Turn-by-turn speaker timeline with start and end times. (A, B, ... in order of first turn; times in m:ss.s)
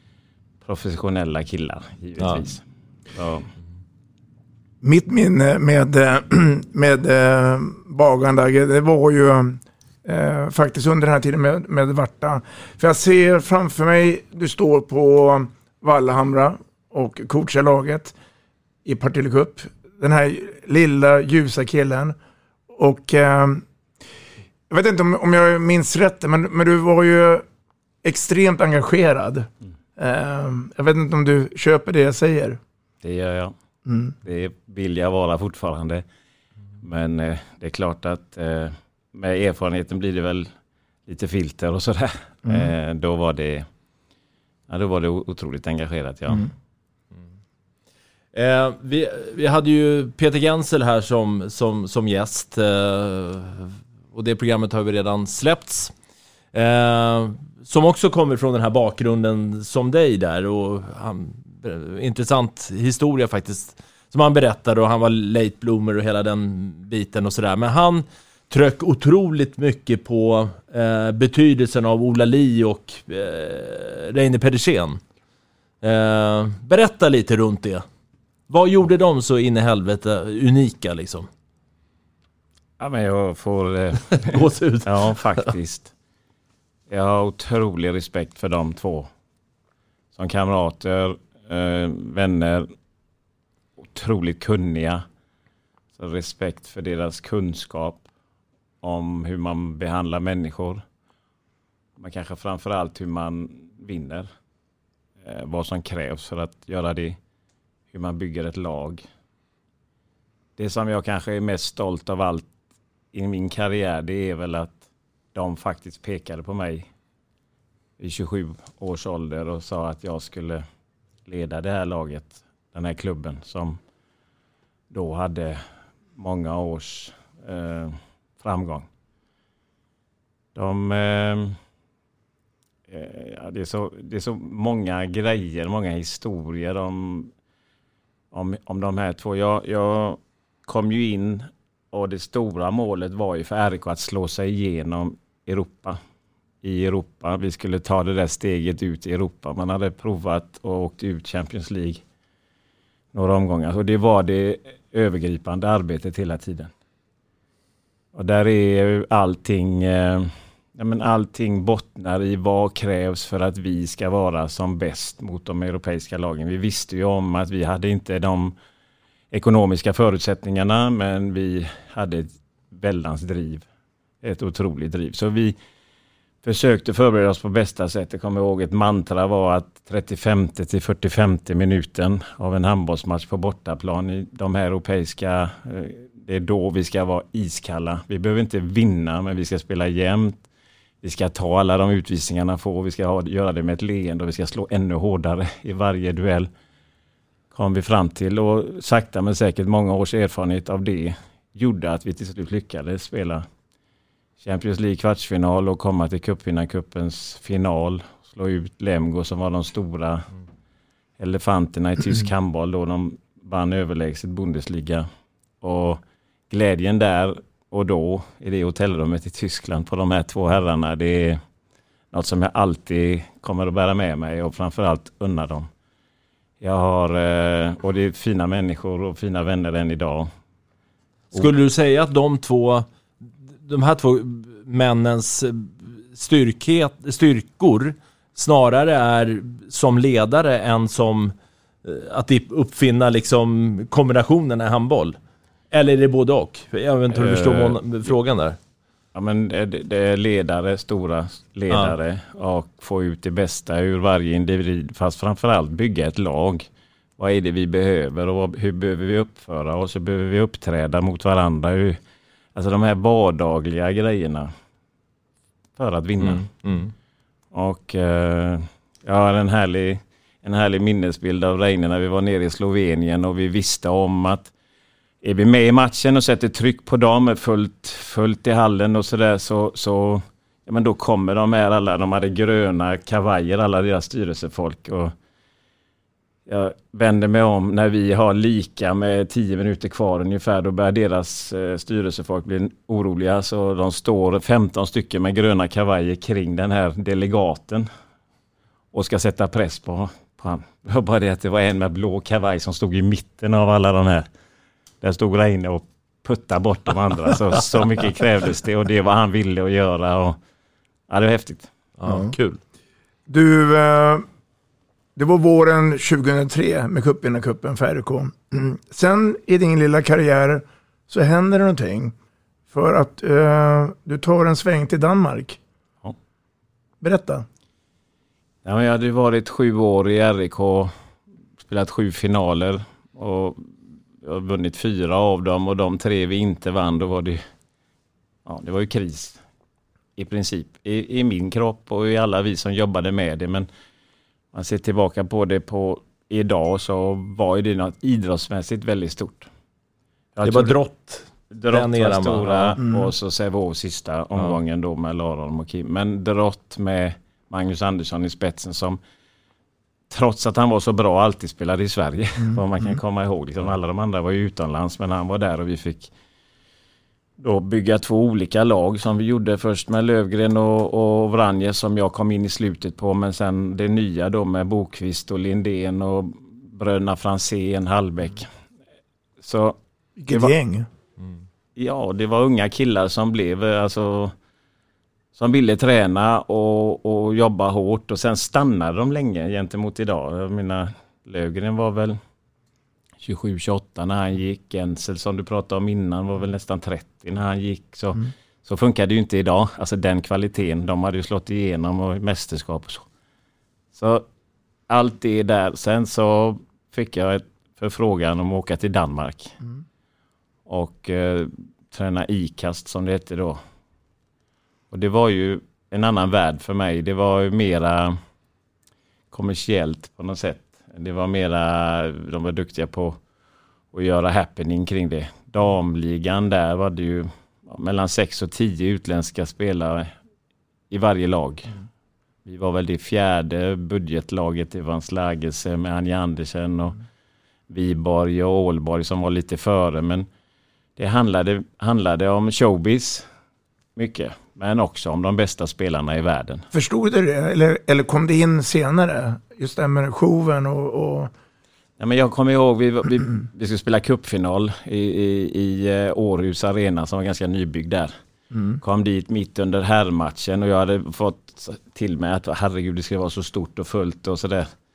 0:00.6-0:03.5 A
0:04.8-0:18.2 B
0:18.8-0:22.2 B
0:22.7-0:23.6 B
0:24.7-0:27.4 B
0:28.0-0:32.6 B
0:33.0-0:33.5 A
0:33.9-0:34.2 B
0:34.2-0:36.0 A
0:36.8-0:40.5 A
0:41.1-0:43.7 A
0:42.5-0:42.7 B
0:44.7-0:46.5 A
0:48.3-0:55.9 C
0:56.5-1:15.0 C
1:15.8-1:17.8 C
1:18.5-1:21.3 C
1:22.8-1:25.9 A
1:24.2-1:25.1 C
1:26.9-1:29.1 A
1:30.2-1:32.7 A
1:33.8-1:35.0 A
1:36.0-1:38.0 A
1:38.8-1:40.8 A
1:42.0-1:44.3 A
1:45.2-1:47.2 A
1:47.9-1:49.0 A
1:50.6-1:52.5 A
1:53.1-1:54.8 A
1:55.4-1:56.9 A
1:58.0-2:00.6 A
2:01.3-2:03.8 A
2:04.9-2:05.6 A
2:06.2-2:08.9 A
2:10.6-2:11.6 A
2:12.9-2:17.3 A
2:18.3-2:26.0 A
2:26.6-2:32.0 A
2:33.1-2:36.7 A
2:38.1-2:48.6 A
2:49.3-2:53.7 A
2:54.2-2:55.6 A
2:56.4-3:10.4 A
3:11.0-3:16.5 A
3:17.5-3:23.4 A
3:24.4-3:30.3 A
3:31.2-3:35.1 A
3:35.6-3:41.4 A
3:42.1-3:45.7 A
3:46.6-3:50.3 A
3:51.3-3:52.9 C
3:53.6-4:01.3 C
4:01.8-4:05.2 C
4:05.7-4:08.6 C
4:07.1-4:07.8 A
4:09.2-4:22.0 A
4:11.7-4:12.0 C
4:22.6-4:24.5 A
4:25.8-4:26.5 A
4:26.2-4:26.9 C
4:27.5-4:34.5 A
4:35.2-4:45.1 A
4:46.5-4:57.9 A
4:58.9-5:04.3 A
5:05.0-5:10.4 A
5:11.1-5:11.7 A
5:12.0-5:12.6 C
5:12.1-5:12.3 B
5:13.3-5:14.3 B
5:15.2-5:22.1 B
5:22.7-5:25.6 B
5:27.0-5:27.4 B
5:28.6-5:30.9 A
5:31.6-5:37.4 A
5:38.5-5:39.4 A
5:40.2-5:43.7 A
5:44.5-5:49.5 A
5:50.4-5:50.8 A
5:50.4-5:52.8 C
5:51.5-5:59.0 A
5:52.8-5:53.1 B
6:00.1-6:06.1 A
6:07.4-6:18.5 A
6:19.4-6:19.8 A
6:20.2-6:20.9 B
6:21.8-6:24.3 A
6:25.4-6:32.2 A
6:33.2-6:43.1 A
6:43.9-6:44.3 A
6:44.9-6:49.6 A
6:50.7-6:53.6 A
6:54.9-6:58.2 A
6:59.3-7:03.2 A
7:03.9-7:10.1 A
7:10.9-7:11.8 A
7:12.4-7:17.0 A
7:17.7-7:20.3 A
7:21.0-7:23.3 A
7:24.0-7:26.6 A
7:26.7-7:31.3 B
7:32.0-7:38.1 A
7:38.5-7:38.8 B
7:38.8-7:44.7 A